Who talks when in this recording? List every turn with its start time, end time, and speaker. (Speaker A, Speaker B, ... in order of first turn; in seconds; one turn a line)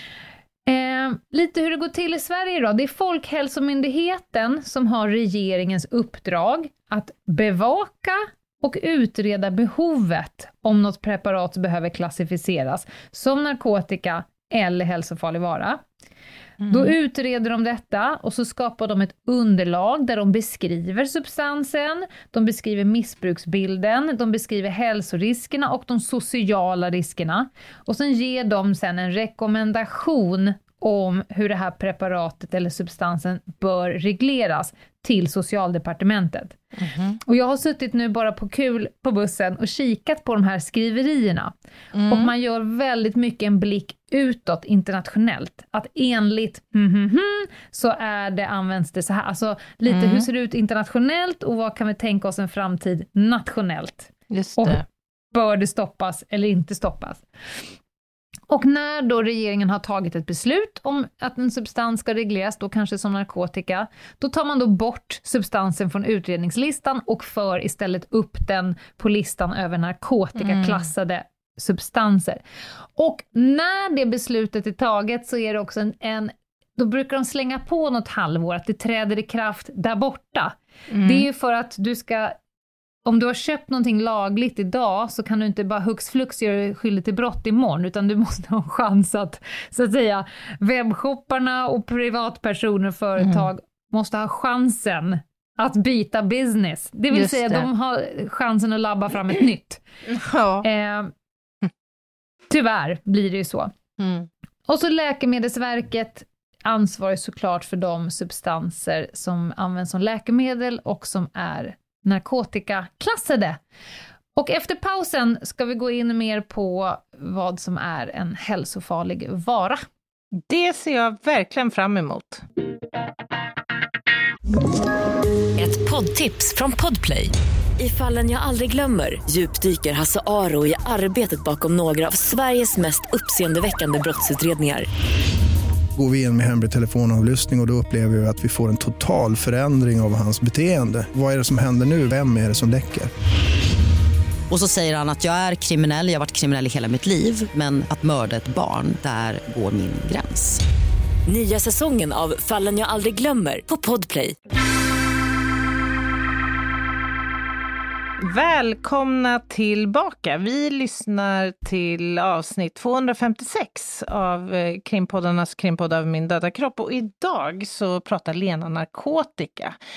Speaker A: 0.7-15.8
Speaker B: 16.6-16.9
Speaker A: 16.7-36.6
Speaker B: 36.8-37.2
Speaker A: 37.2-41.5
Speaker B: 41.9-42.3
Speaker A: 42.1-57.2
Speaker B: 49.9-50.3
Speaker B: 54.3-54.8
Speaker A: 58.5-72.4
Speaker B: 70.4-70.8
Speaker A: 73.0-82.3
Speaker B: 80.9-81.3
Speaker A: 83.0-99.8
Speaker B: 93.2-93.5
Speaker B: 97.1-97.7
Speaker B: 100.0-100.7
Speaker A: 100.6-101.1
Speaker A: 102.5-103.7
Speaker B: 104.0-104.3
Speaker A: 104.7-113.6
Speaker A: 114.3-119.8
Speaker B: 120.5-122.4
Speaker C: 125.5-134.9
Speaker D: 135.9-143.1
Speaker E: 144.5-150.6
Speaker C: 151.3-154.4
Speaker B: 158.2-169.8